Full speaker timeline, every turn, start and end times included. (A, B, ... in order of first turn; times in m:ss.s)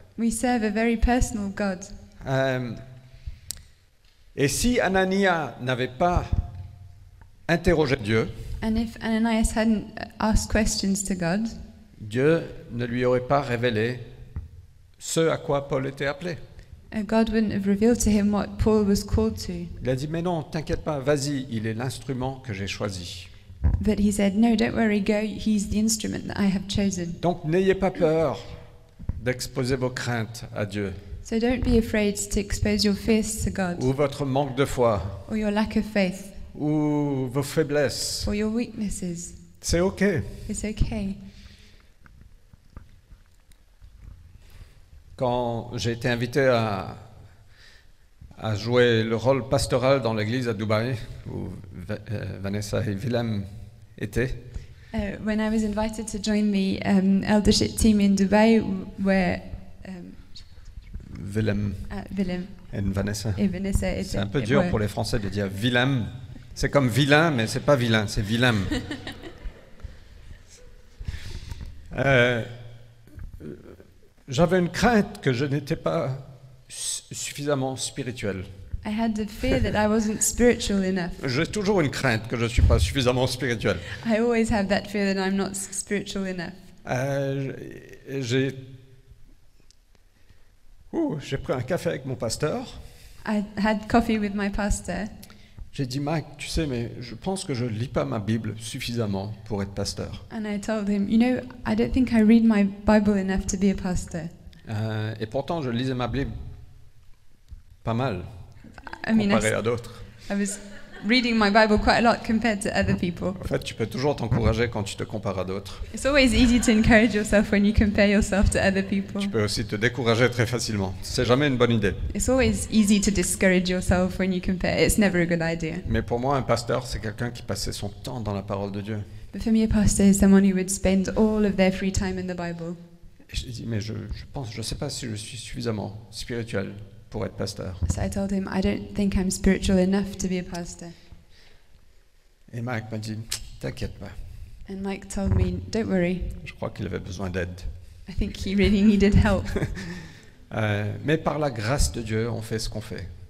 0:00.2-0:01.9 A
0:02.2-0:02.8 B
0:04.4-0:06.4 B
0:07.5-0:08.3 B
0:08.6-0:11.6 A
0:12.0-0:14.0 B
0:15.0-0:16.4 B
0:16.9-0:19.8 A
0:19.8-0:23.3 B
0:23.8-0:27.2 A
0:27.2-0:28.6 B
0:29.2-0:31.0 B
0:31.2-0:33.9 A
0:33.7-0:35.2 B
0:35.3-0:36.4 A
0:36.5-0:38.3 B
0:38.2-0:39.4 A
0:39.6-0:40.4 B
0:40.5-0:41.2 A
0:45.2-0:47.0 B
0:48.4-0:54.4 B
0:54.9-1:00.3 A
1:01.1-1:01.9 B
1:01.9-1:02.6 A
1:02.7-1:03.4 B
1:03.4-1:04.8 A
1:04.0-1:08.8 B
1:11.9-1:12.5 B
1:13.4-1:13.8 B
1:14.3-1:18.5 B
1:18.8-1:21.3 A
1:21.2-1:23.9 B
1:23.9-1:26.6 A
1:26.8-1:28.6 B
1:30.9-1:32.8 B
1:33.2-1:35.1 A
1:35.7-1:40.2 B
1:40.3-1:44.3 A
1:44.6-1:46.3 B
1:47.8-1:48.3 B
1:48.9-1:49.6 A
1:49.1-1:50.0 B
1:50.2-1:53.4 A
1:53.4-1:55.9 B
1:55.9-1:59.3 A
1:59.2-2:02.1 B
2:02.1-2:05.8 A
2:05.8-2:09.1 B
2:09.3-2:12.8 A
2:13.3-2:17.8 B
2:17.8-2:20.9 A
2:22.5-2:24.2 B
2:24.7-2:26.4 A
2:26.4-2:27.7 B
2:28.1-2:29.8 A
2:30.5-2:33.1 B